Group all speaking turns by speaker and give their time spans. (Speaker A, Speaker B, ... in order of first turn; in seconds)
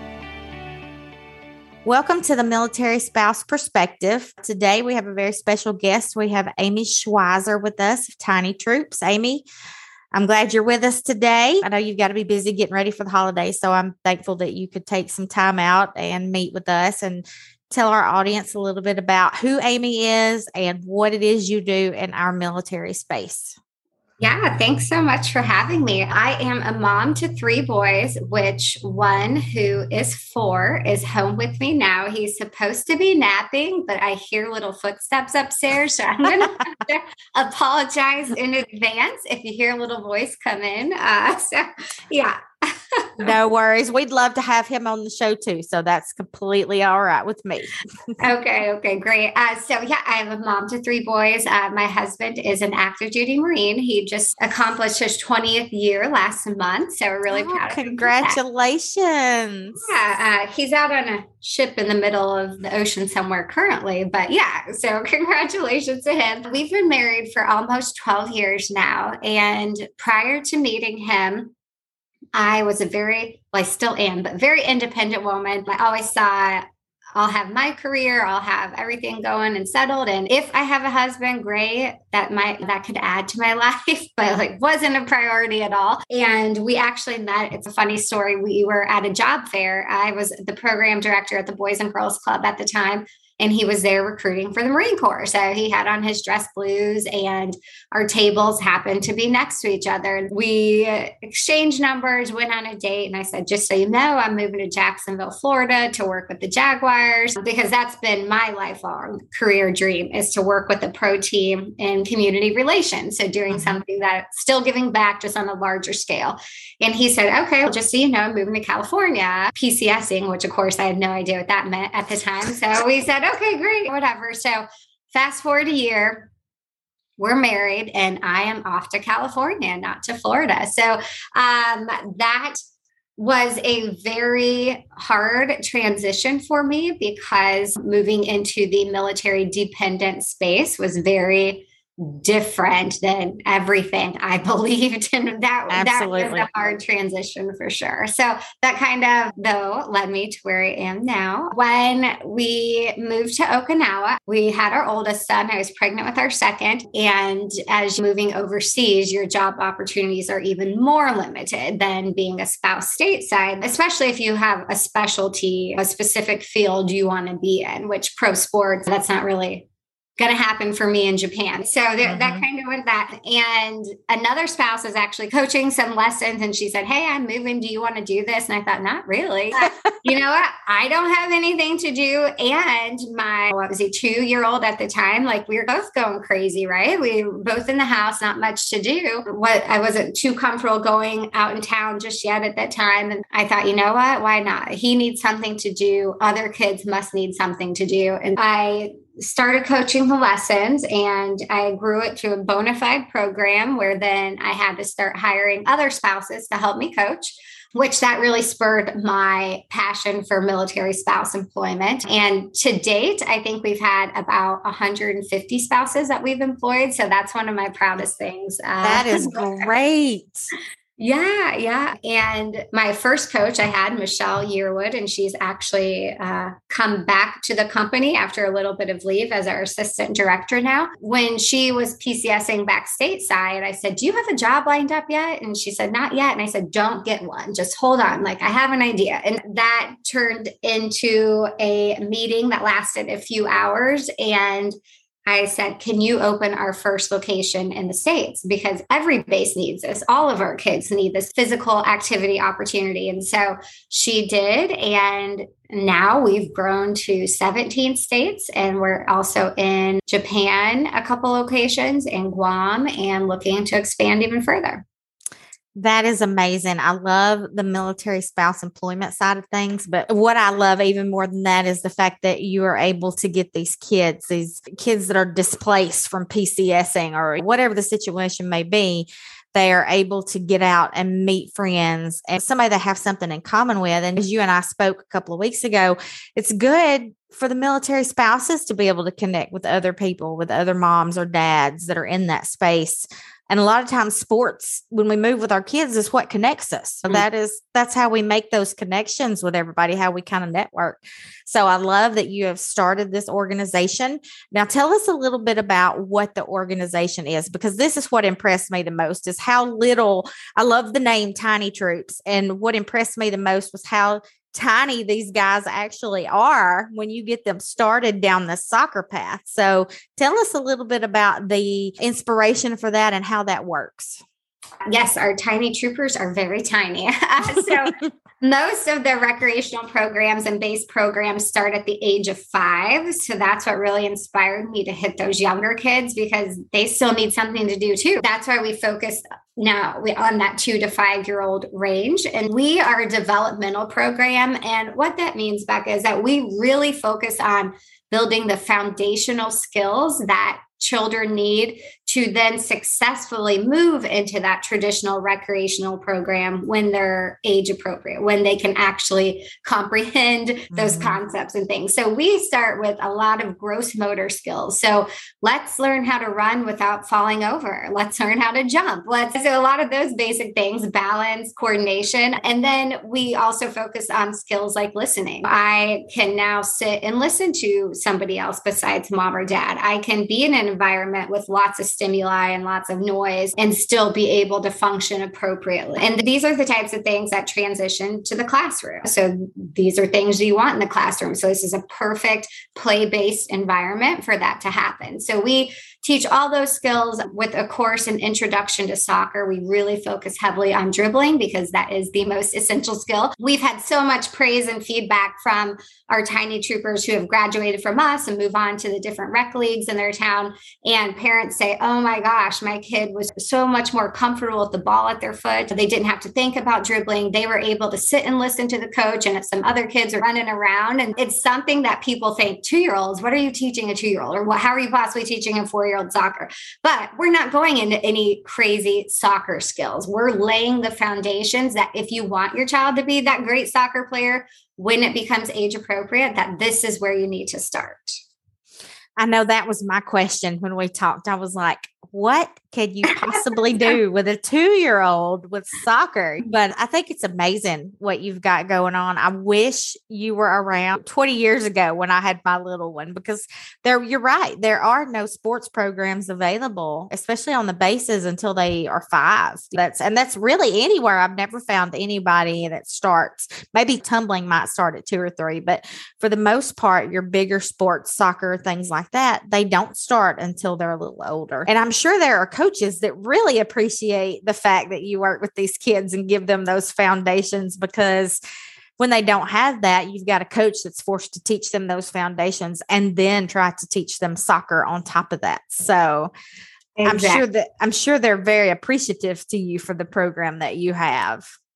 Speaker A: 1.9-9.5, 10.1-23.6, 43.2-47.7, 57.3-59.9, 113.5-113.8, 145.7-146.5, 172.0-172.4, 218.8-220.5, 265.8-324.2, 360.7-361.2, 439.2-478.4, 479.0-486.3, 487.1-491.5
Speaker B: 24.2-43.3, 48.2-58.4, 59.8-71.5, 72.3-76.6, 77.2-126.3, 127.2-132.6, 133.2-169.7, 170.2-219.7, 221.0-244.8, 245.3-264.9, 324.9-438.2, 443.1-444.0, 487.0-487.4